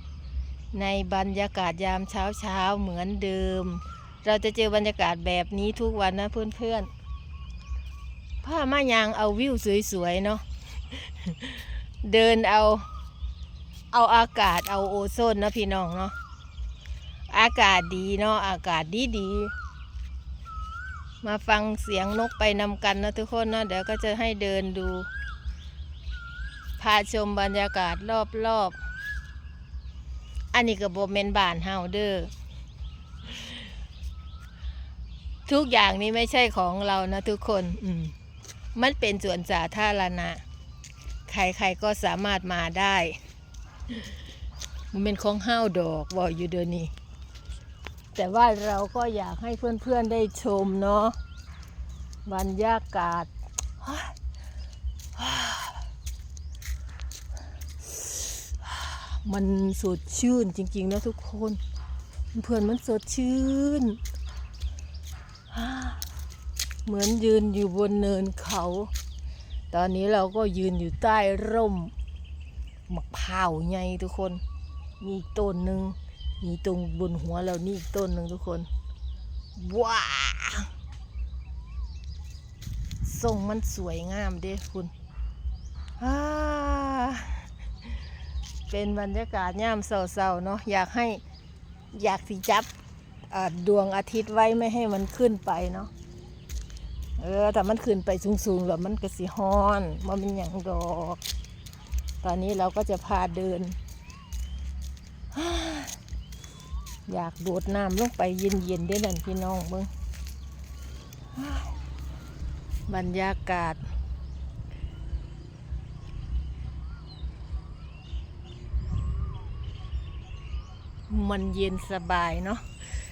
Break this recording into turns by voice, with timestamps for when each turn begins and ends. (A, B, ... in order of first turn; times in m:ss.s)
0:00.7-0:06.9 A
0:08.4-0:10.4 A
0:11.0-0:12.8 A
0:13.9-0:16.1 A
0:17.3-0:19.5 A
0:21.2-0:25.1 A
0:26.8-0:28.8 A
0:30.5-0:32.3 A
0:35.4-0:38.1 A
0:38.7-0:40.4 A
0:41.3-0:43.2 A
0:44.9-0:46.9 A
0:48.1-0:51.2 A
0:52.2-0:54.1 A
0:55.2-0:55.8 A
0:57.8-1:01.6 A
1:02.3-1:04.0 A
1:05.5-1:06.0 A
1:06.8-1:08.9 A
1:09.7-1:11.9 A
1:12.9-1:14.4 A
1:15.0-1:18.7 A
1:19.6-1:20.7 A
1:23.0-1:24.9 A
1:26.0-1:27.4 A
1:28.7-1:31.2 A
1:31.9-1:32.7 A
1:33.3-1:35.9 A
1:37.2-1:41.2 A
1:42.2-1:43.8 A
1:45.3-1:46.0 A
1:47.1-1:49.9 A
1:51.4-1:51.7 A
1:52.9-1:53.8 A
2:01.1-2:02.6 A